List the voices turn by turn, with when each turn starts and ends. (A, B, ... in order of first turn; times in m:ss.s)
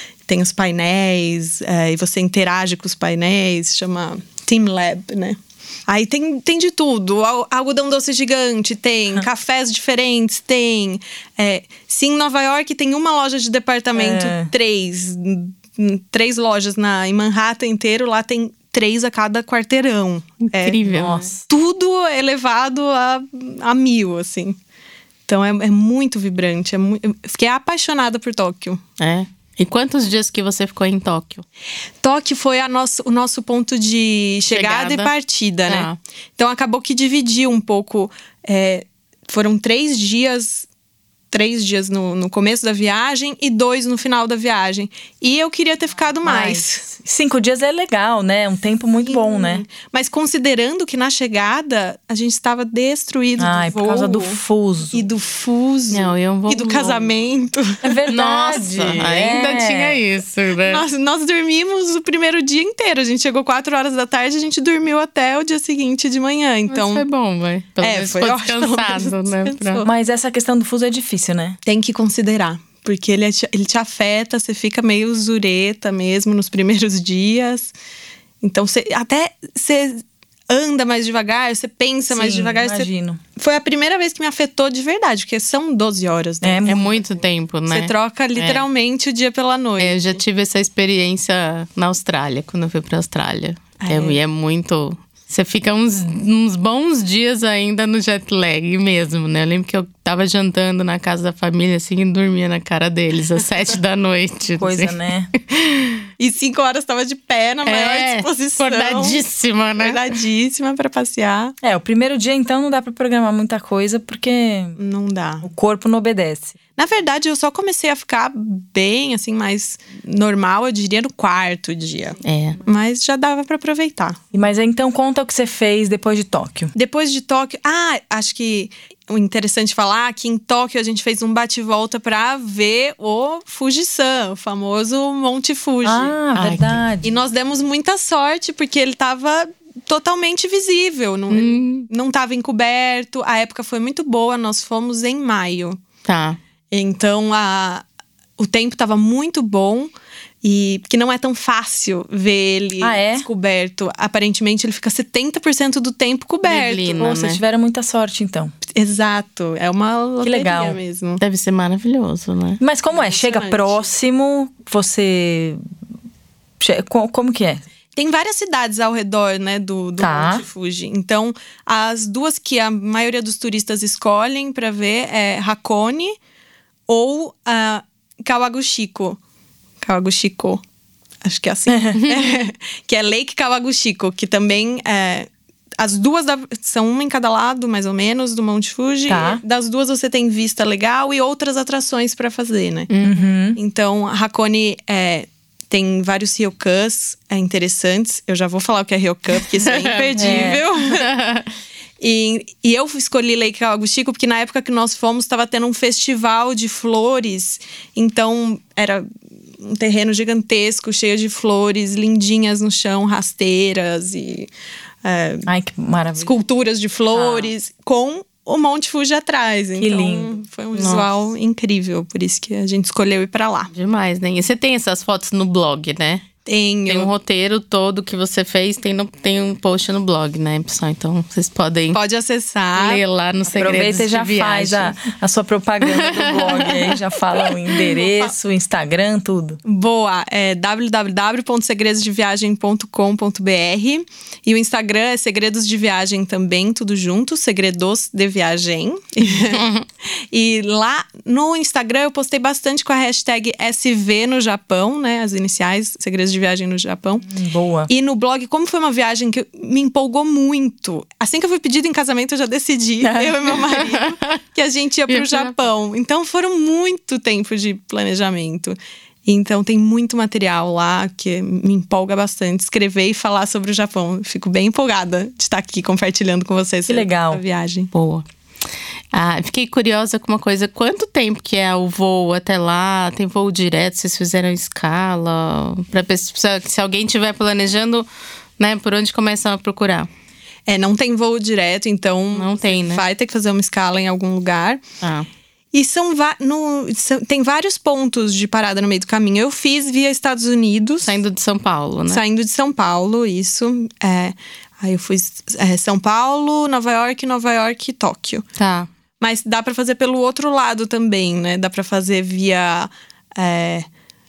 0:00.3-0:20.8 A
0:13.9-0:14.5 B
0:20.5-0:21.3 C
0:20.9-0:21.4 B
0:21.5-0:24.6 A
0:25.3-0:28.8 A
0:29.0-0:31.4 C
0:32.0-0:40.7 A
0:34.5-0:35.1 C
0:35.7-0:36.0 C
0:41.3-0:46.9 A
0:46.2-0:49.6 B
0:49.0-0:54.4 A
0:53.4-0:55.0 B
0:54.9-0:57.9 A
0:55.9-0:57.1 C
0:57.8-1:00.0 B
0:58.1-1:00.8 C
1:00.6-1:07.0 A
1:06.7-1:09.8 C
1:07.8-1:09.9 A
1:09.8-1:11.6 B
1:11.6-1:17.7 A
1:18.4-1:26.7 A
1:22.1-1:23.2 B
1:26.4-1:27.0 B
1:26.6-1:28.6 C
1:27.7-1:30.1 A
1:29.8-1:44.9 C
1:33.8-1:34.2 A
1:44.6-1:45.3 B
1:45.5-1:46.0 C
1:46.2-1:49.2 A
1:47.6-1:50.0 C
1:49.8-1:51.5 A
1:51.6-1:54.8 B
1:54.8-1:55.5 A
1:55.4-1:56.5 B
1:56.8-2:04.2 A
2:02.2-2:02.6 C
2:04.3-2:06.7 B
2:06.7-2:16.2 A
2:15.8-2:17.1 B
2:16.3-2:16.8 C
2:17.0-2:25.8 A
2:21.3-2:21.9 C
2:26.0-2:26.4 C
2:26.7-2:27.8 A
2:28.4-2:29.9 A
2:30.4-2:37.0 A
2:32.8-2:33.3 B
2:36.4-2:37.4 C
2:37.0-2:38.5 B
2:38.7-2:41.2 A
2:40.2-2:40.8 B
2:41.2-2:42.6 C
2:42.6-2:45.6 B
2:42.9-2:43.9 A
2:46.6-2:47.6 B
2:48.0-2:56.1 A
2:50.0-2:50.4 B
2:56.9-2:59.2 A
2:59.8-3:00.6 A
3:01.2-3:12.9 A
3:01.7-3:01.9 B
3:01.9-3:02.4 C
3:09.1-3:09.4 B
3:12.9-3:13.2 C
3:13.0-3:13.6 B
3:13.6-3:21.1 A
3:19.5-3:21.5 C
3:20.2-3:20.6 B
3:22.0-3:29.0 A
3:29.6-3:34.5 A
3:35.0-3:35.5 A
3:35.4-3:36.3 B
3:36.2-3:43.7 A
3:39.8-3:40.3 B
3:40.7-3:41.0 C
3:43.7-3:46.2 C
3:46.4-3:47.1 A
3:46.9-3:52.0 C
3:51.9-3:53.0 A
3:52.8-3:54.9 C
3:53.5-3:59.6 B
3:55.8-3:57.0 C
3:59.6-4:09.6 A
4:09.4-4:09.8 C
4:10.3-4:17.2 A
4:17.2-4:17.9 B
4:17.9-4:37.9 A
4:23.0-4:23.4 B
4:23.5-4:24.4 C
4:25.1-4:25.5 C
4:36.9-4:37.4 B
4:37.9-4:38.2 C
4:39.1-4:48.1 C
4:48.6-4:50.1 C
4:50.7-4:54.8 A
4:52.3-4:53.0 C
4:55.0-4:55.3 C
4:55.7-5:01.2 A
5:01.0-5:02.2 C
5:02.1-5:08.4 A
5:08.6-5:08.9 C
5:09.2-5:13.8 A